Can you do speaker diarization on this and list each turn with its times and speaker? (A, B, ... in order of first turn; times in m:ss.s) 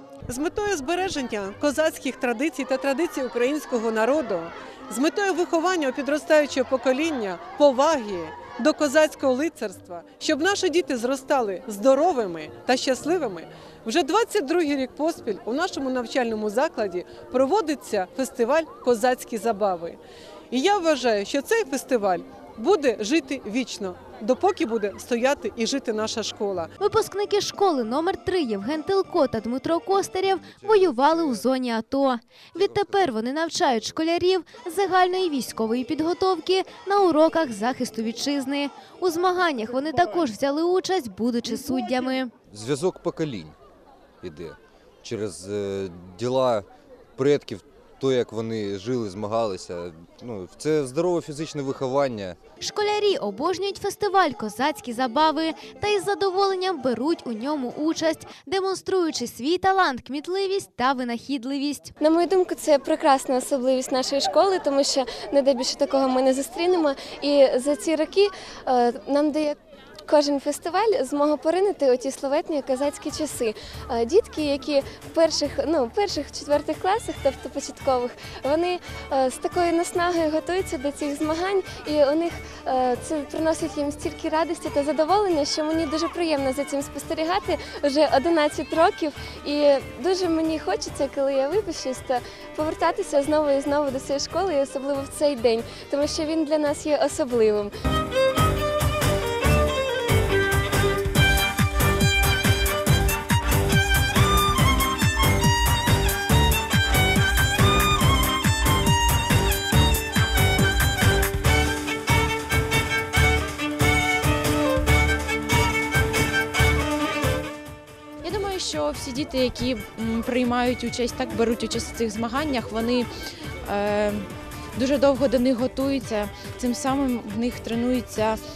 0:00.3-0:26.7 A
0:26.8-0:42.3 B
0:30.5-0:31.4 C
0:32.6-0:32.9 C
0:42.5-0:43.6 C
0:44.2-0:52.4 C
0:52.6-1:01.9 B
1:02.0-1:09.6 D
1:10.1-1:37.7 D
1:58.2-2:03.1 E
2:03.6-2:08.4 E